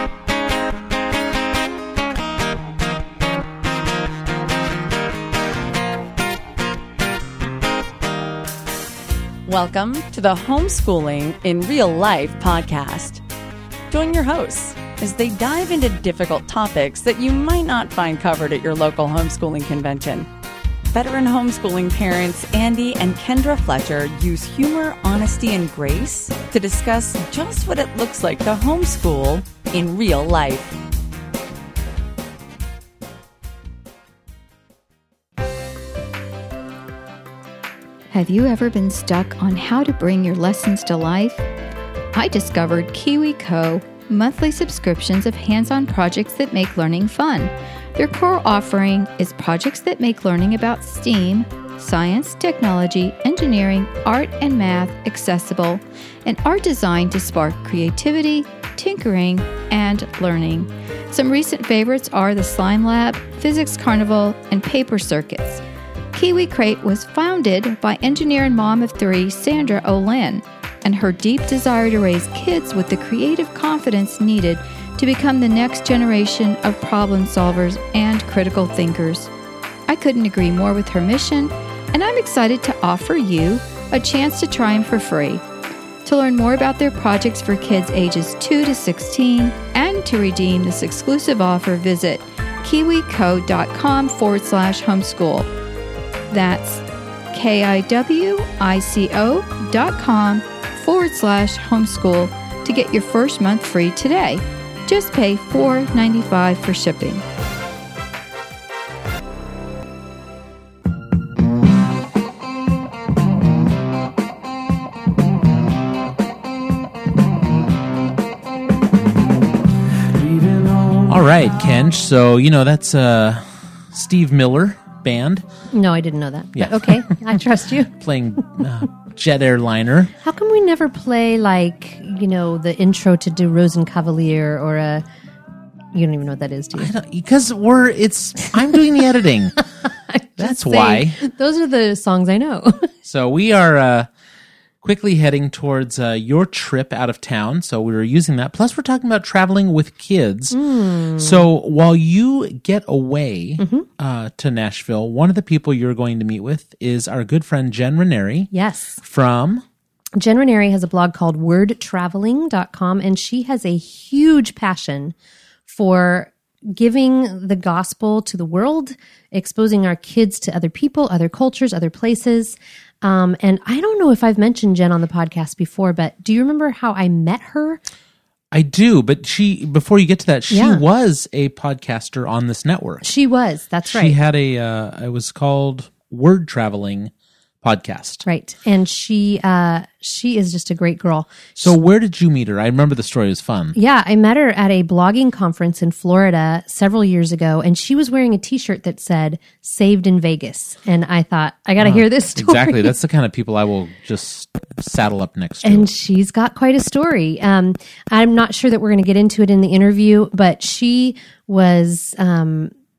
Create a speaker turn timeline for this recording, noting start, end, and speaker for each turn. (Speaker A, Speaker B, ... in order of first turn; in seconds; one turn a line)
Speaker A: 9.4-13.2
Speaker A: 13.9-20.3
Speaker A: 20.9-30.8
Speaker B: 38.1-41.4
Speaker B: 42.1-65.6
Speaker B: 66.1-79.3
Speaker B: 79.9-85.4
Speaker B: 86.0-95.5
Speaker B: 96.3-107.2
Speaker C: 120.9-125.4
Speaker D: 125.7-127.9
Speaker C: 126.6-127.2
Speaker C: 127.9-130.1
Speaker D: 130.2-135.0
Speaker D: 135.9-136.9
Speaker C: 136.8-139.6
Speaker D: 140.1-142.9
Speaker C: 140.4-141.2
Speaker C: 143.0-144.1
Speaker C: 144.8-150.6
Speaker D: 150.5-151.5
Speaker C: 151.2-159.6
Speaker D: 153.6-153.9
Speaker D: 158.5-159.0
Speaker D: 160.2-165.2
Speaker D: 165.7-177.8
Speaker C: 178.5-183.1
Speaker D: 180.5-180.8
Speaker D: 183.0-184.2
Speaker C: 183.8-188.2
Speaker D: 188.2-191.8
Speaker C: 191.6-193.8
Speaker D: 193.8-202.9
Speaker C: 201.8-205.9
Speaker D: 205.6-212.7